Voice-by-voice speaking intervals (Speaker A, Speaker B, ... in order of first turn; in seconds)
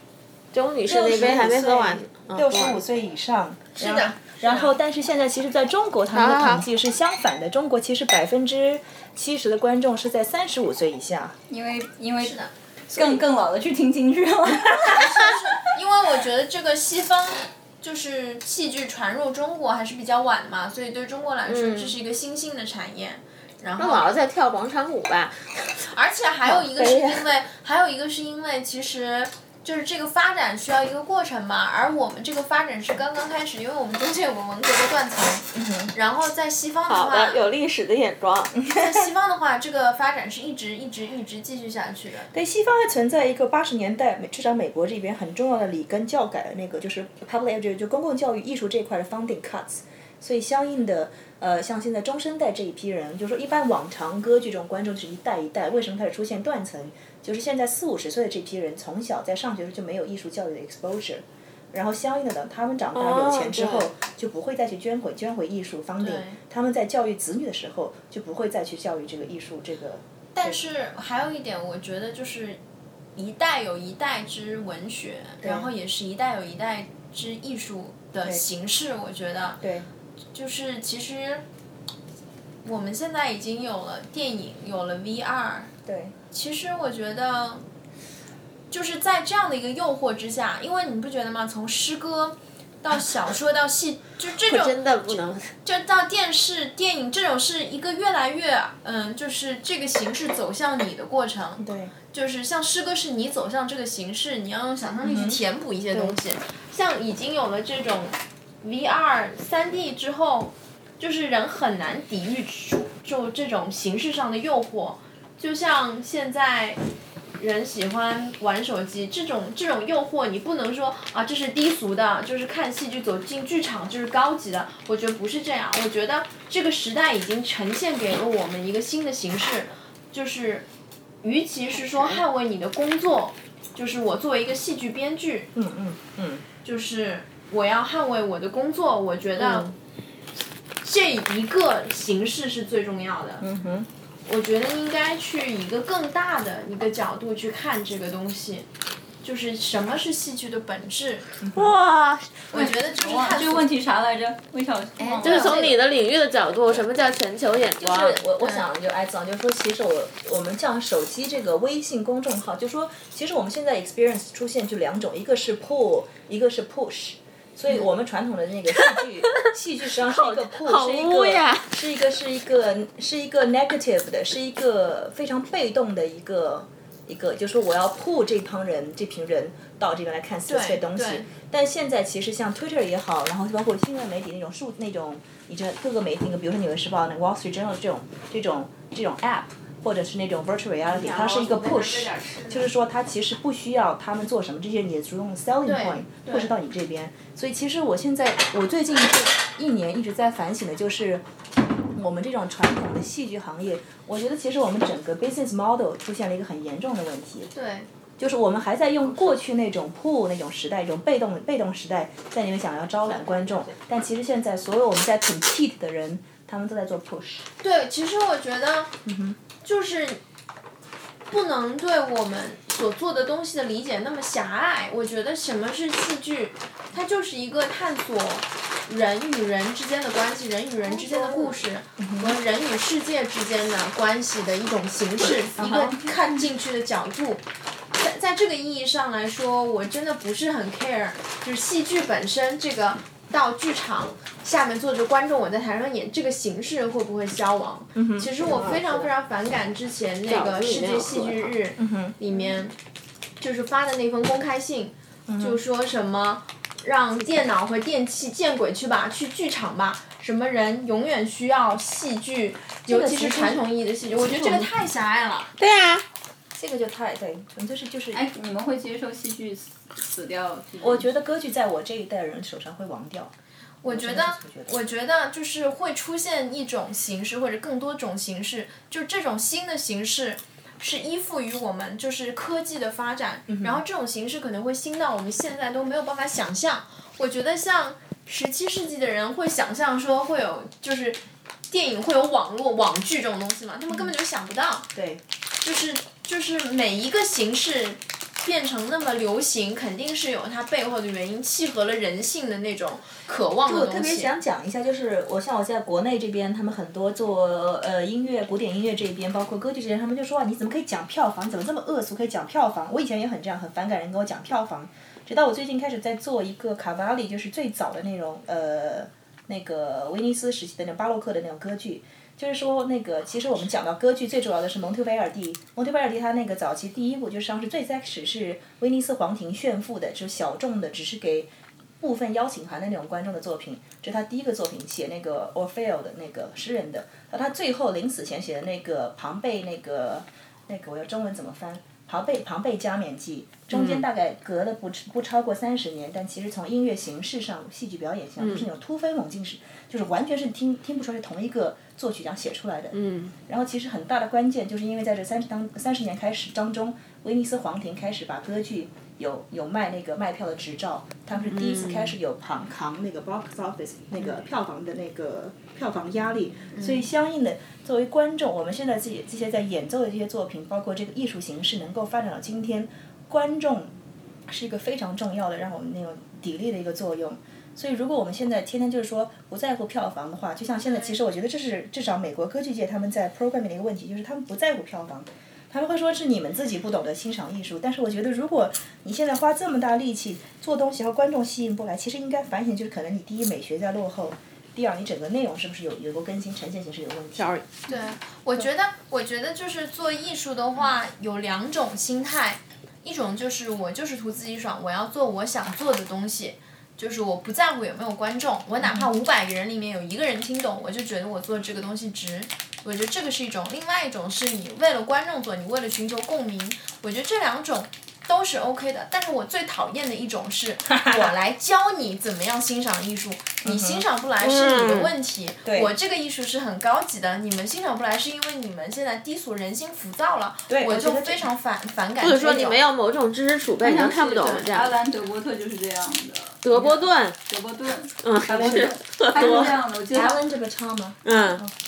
Speaker A: 0.5-2.8, 6.1-6.7, 21.5-21.9, 23.8-25.7, 26.5-27.2, 36.9-38.5, 62.9-63.9, 94.4-95.5, 131.9-132.2, 151.5-152.4, 155.2-158.2, 168.9-169.5, 170.0-171.7, 190.9-192.7, 213.1-213.7, 250.3-251.5, 265.6-266.0, 343.7-344.0, 348.4-348.6, 352.9-353.3, 361.4-362.1, 397.4-397.7, 424.4-425.1, 432.2-434.9, 436.6-437.4, 438.2-439.8, 441.2-441.6
Speaker B: 0.8-11.4, 12.9-13.2, 35.5-35.9, 42.3-70.6, 75.4-75.7, 79.6-79.9, 85.8-86.1, 101.6-101.9, 105.0-105.4, 135.5-136.4, 143.4-143.9, 151.4-151.7, 157.8-201.2, 201.9-207.5, 208.2-217.4, 219.0-219.4, 231.2-232.3, 235.2-236.3, 247.9-249.1, 251.8-252.2, 255.3-255.6, 262.9-264.7, 266.5-268.2, 270.8-273.3, 273.9-274.7, 283.5-283.8, 294.9-295.2, 303.6-352.9, 353.5-373.9, 374.5-397.5, 408.8-409.1, 420.9-421.3, 423.6-424.0, 425.6-425.9, 430.7-431.4, 438.5-441.7
Speaker C: 3.8-4.7, 12.2-12.5, 14.8-24.1, 25.9-37.4, 38.7-42.3, 66.0-66.4, 70.3-72.6, 73.2-79.6, 80.3-81.4, 82.6-85.7, 86.3-87.6, 88.7-94.8, 95.6-116.8, 117.4-130.7, 131.2-135.5, 136.6-139.7, 140.8-143.4, 144.2-148.7, 149.2-151.3, 152.5-153.7, 155.0-155.8, 158.4-158.7, 180.5-181.3, 195.6-196.5, 207.5-207.9, 217.6-218.9, 219.6-220.2, 221.3-252.8, 253.4-265.5, 273.8-294.9, 295.6-304.3, 366.7-367.1, 397.9-432.8, 434.4-434.6
Speaker D: 11.5-12.4, 12.9-15.3, 152.5-155.6, 268.1-271.1, 433.8-440.4